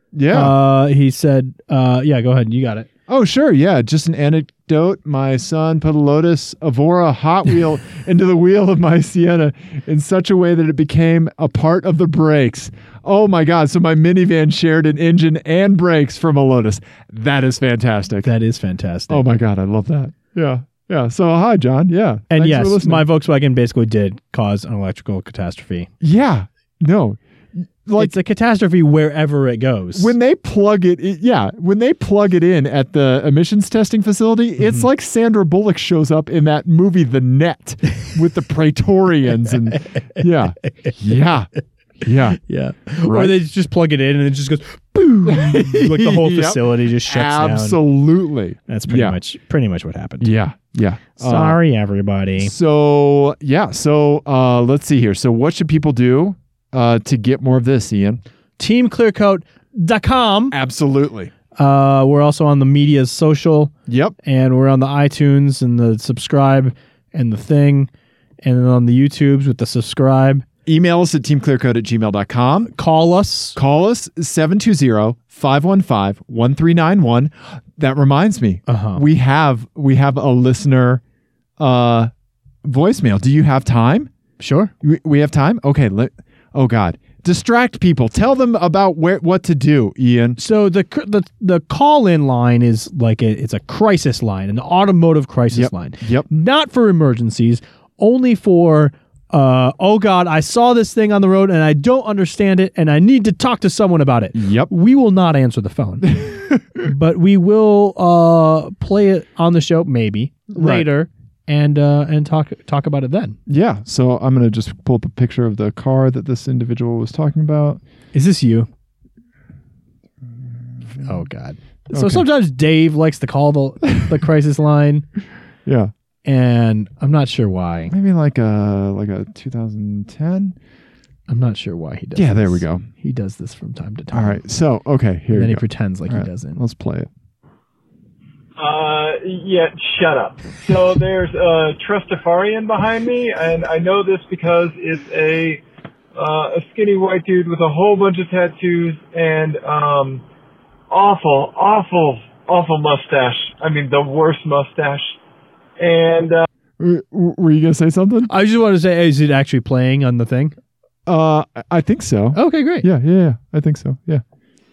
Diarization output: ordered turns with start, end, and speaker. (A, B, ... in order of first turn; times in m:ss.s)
0:00.1-0:00.6 A
0:00.3-0:02.9 B
0:03.1-0:18.3 A
0:18.2-0:19.2 B
0:19.1-0:23.1 A
0:22.3-0:25.9 B
0:26.0-0:28.2 A
0:28.0-0:30.1 B
0:30.0-0:41.5 A
0:34.6-0:34.9 B
0:42.0-0:42.4 A
0:42.4-0:47.8 B
0:43.0-0:43.4 A
0:45.2-0:49.2 A
0:48.7-0:50.3 B
0:50.2-0:51.6 A
0:51.2-0:52.5 B
0:52.4-0:58.2 A
0:58.6-1:00.6 B
1:00.5-1:01.3 A
1:01.6-1:03.7 B
1:03.9-1:04.2 A
1:04.2-1:07.9 B
1:08.4-1:10.5 B
1:10.7-1:12.7 A
1:12.7-1:13.6 B
1:13.6-1:21.0 A
1:18.7-1:19.0 B
1:21.6-1:22.1 A
1:22.6-1:24.1 A
1:24.4-1:24.7 B
1:24.8-1:30.4 A
1:30.4-1:53.4 B
1:35.5-1:36.3 A
1:44.4-1:44.7 A
1:46.1-1:46.8 A
1:50.5-1:50.9 A
1:53.5-1:57.8 A
1:58.1-1:58.7 B
2:00.9-2:01.2 A
2:01.0-2:05.1 B
2:01.9-2:02.2 A
2:05.7-2:05.9 A
2:06.2-2:07.9 B
2:07.9-2:10.6 A
2:11.3-2:14.4 B
2:12.2-2:12.9 A
2:14.1-2:17.1 A
2:15.3-2:16.6 B
2:18.6-2:25.6 C
2:26.2-2:30.2 C
2:30.9-2:35.2 C
2:35.8-2:36.5 C
2:36.8-2:38.3 A
2:38.3-2:40.6 B
2:41.1-2:44.2 A
2:42.3-2:42.9 B